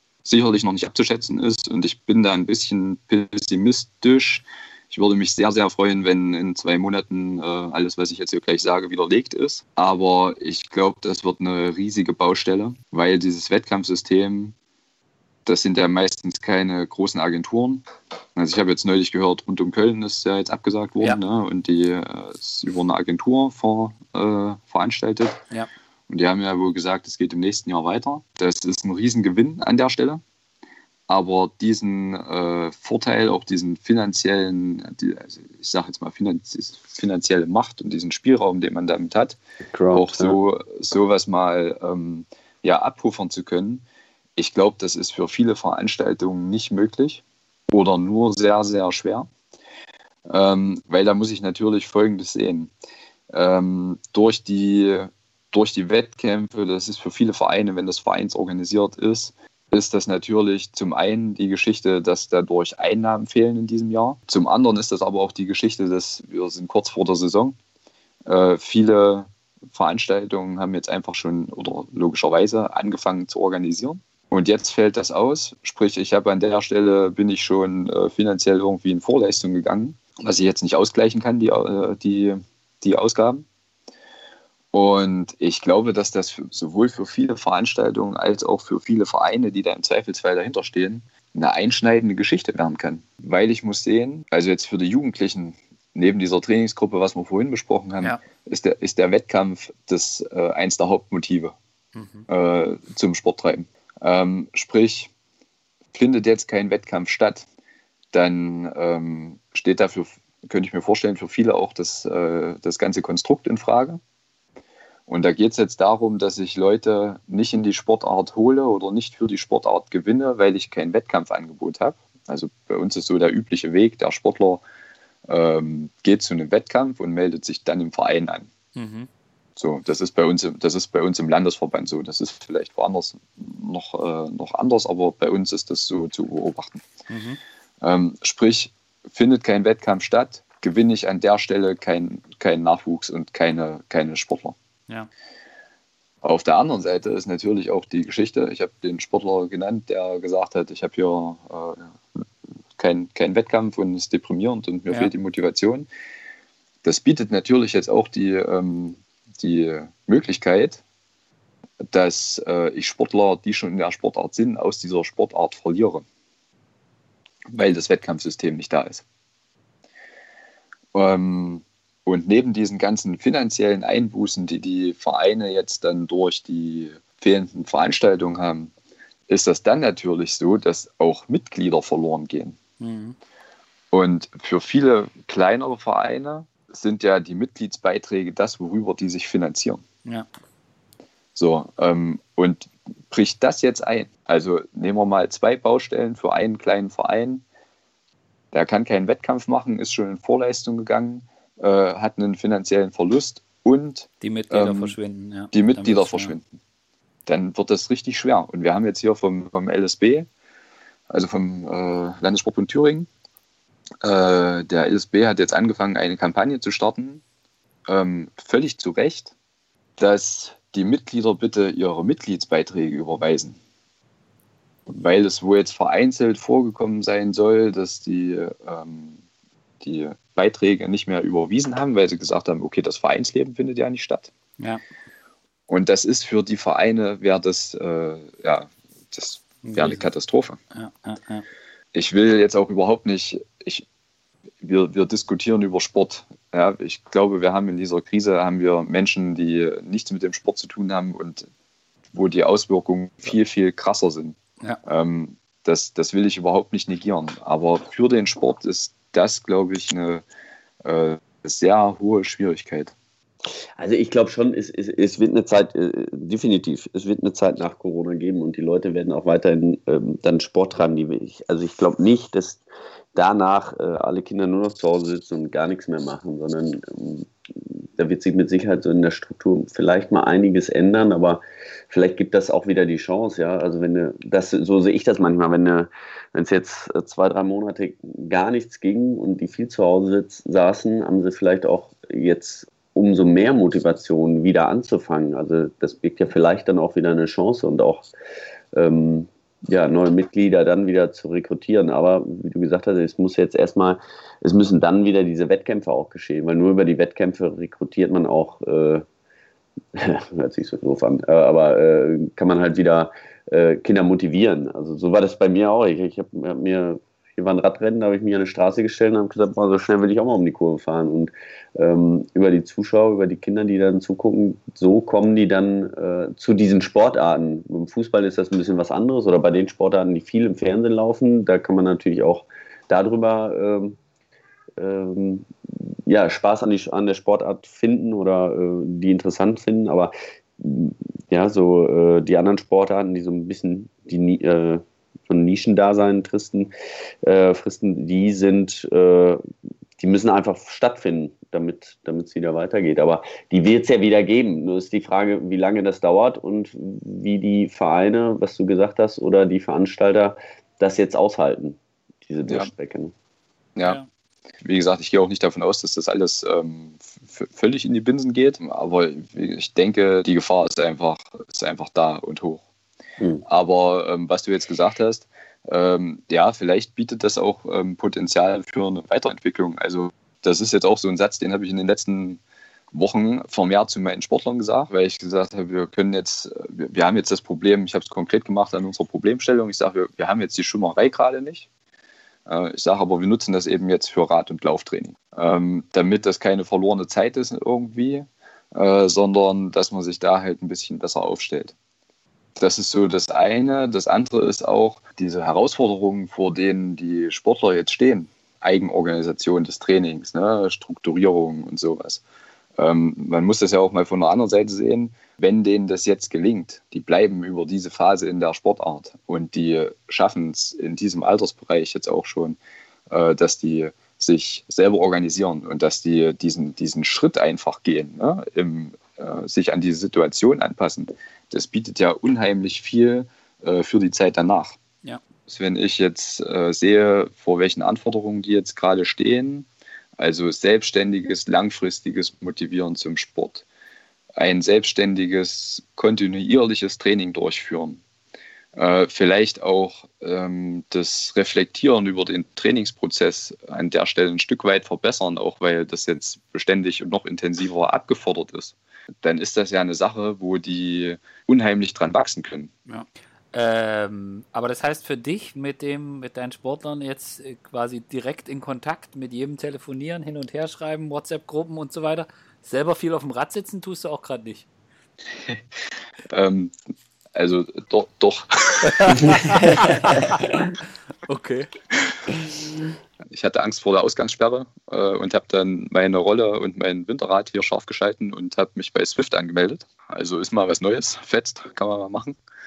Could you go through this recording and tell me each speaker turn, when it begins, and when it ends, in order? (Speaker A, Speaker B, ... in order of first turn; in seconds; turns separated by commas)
Speaker A: 0.2-14.5, Speaker A: 15.4-25.4, Speaker A: 26.1-30.2, Speaker A: 31.1-39.4, Speaker B: 39.7-40.4, Speaker A: 39.9-43.8, Speaker A: 44.4-49.3, Speaker A: 50.3-52.7, Speaker A: 53.3-67.5, Speaker A: 68.2-83.4, Speaker A: 84.7-101.5, Speaker C: 101.9-102.3, Speaker A: 102.3-105.1, Speaker A: 105.9-107.5, Speaker A: 108.1-114.0, Speaker A: 115.1-124.6, Speaker A: 125.3-128.5, Speaker C: 128.7-129.1, Speaker A: 129.6-136.8, Speaker C: 137.1-137.4, Speaker A: 137.8-144.6, Speaker A: 146.2-152.2, Speaker A: 152.8-155.9, Speaker A: 156.8-160.8, Speaker A: 161.8-166.0, Speaker A: 167.5-169.0, Speaker A: 170.9-178.7, Speaker A: 179.3-182.6, Speaker C: 182.8-183.2, Speaker A: 183.9-189.8, Speaker A: 191.3-197.4, Speaker A: 198.5-204.9, Speaker C: 204.2-206.3, Speaker A: 205.5-206.4, Speaker A: 207.3-210.3, Speaker A: 211.1-213.1, Speaker A: 214.0-217.2, Speaker A: 217.9-219.3, Speaker A: 220.0-223.6, Speaker A: 224.9-229.2, Speaker A: 229.8-234.3, Speaker A: 235.7-240.6, Speaker C: 239.6-240.0, Speaker C: 240.7-241.4, Speaker A: 241.9-243.8, Speaker A: 244.6-251.5, Speaker A: 252.1-260.2, Speaker A: 260.8-262.9, Speaker B: 263.8-272.6, Speaker B: 273.1-298.1, Speaker B: 298.7-309.0, Speaker B: 309.9-334.0, Speaker B: 334.8-335.5, Speaker B: 336.1-346.7, Speaker B: 347.2-349.4, Speaker B: 350.0-363.1, Speaker A: 364.6-372.6, Speaker A: 373.4-382.4, Speaker A: 382.9-391.7, Speaker A: 392.4-401.7, Speaker A: 402.6-412.2, Speaker A: 412.8-422.6, Speaker A: 423.1-434.8, Speaker A: 435.5-439.7, Speaker A: 440.2-443.6, Speaker A: 444.4-448.0, Speaker A: 448.7-462.7, Speaker C: 462.9-474.7, Speaker A: 476.3-476.7, Speaker A: 477.3-480.1, Speaker C: 478.8-481.7, Speaker A: 483.3-492.4